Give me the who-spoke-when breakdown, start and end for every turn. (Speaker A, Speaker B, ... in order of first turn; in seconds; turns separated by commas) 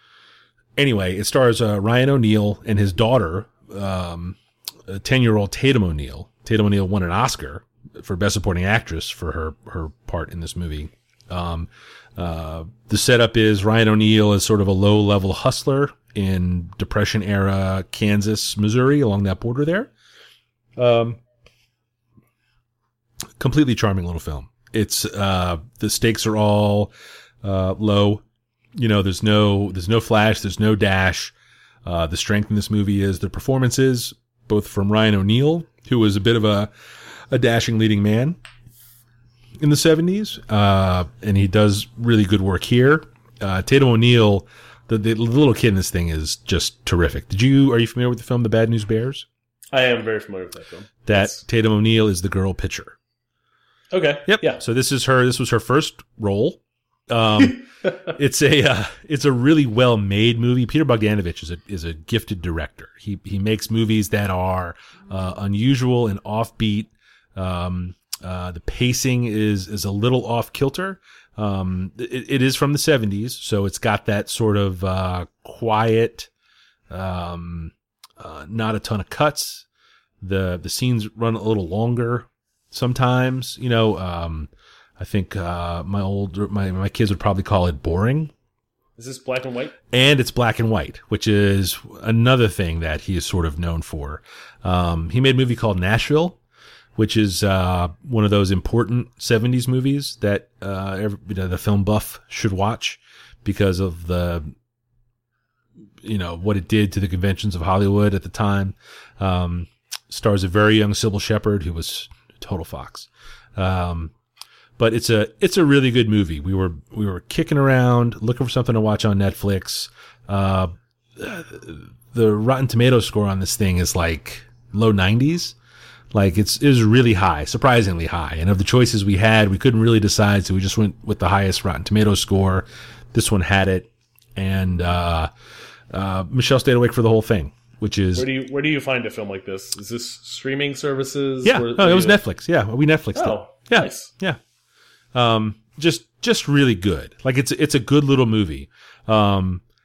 Speaker A: 0.8-19.9, Speaker A: 20.8-21.2, Speaker A: 23.4-26.9, Speaker A: 27.4-28.2, Speaker A: 28.8-31.3, Speaker A: 31.9-36.7, Speaker A: 37.3-38.4, Speaker A: 39.6-49.3, Speaker B: 49.7-51.4, Speaker A: 51.1-53.0, Speaker B: 53.9-54.6, Speaker A: 54.3-76.3, Speaker A: 76.9-79.7, Speaker A: 80.2-88.3, Speaker B: 89.0-89.8, Speaker A: 89.9-96.4, Speaker A: 97.0-104.5, Speaker A: 106.0-114.1, Speaker A: 114.8-125.6, Speaker A: 126.1-135.3, Speaker A: 135.9-138.3, Speaker B: 138.2-142.2, Speaker A: 141.4-144.4, Speaker B: 143.2-144.1, Speaker A: 145.1-149.6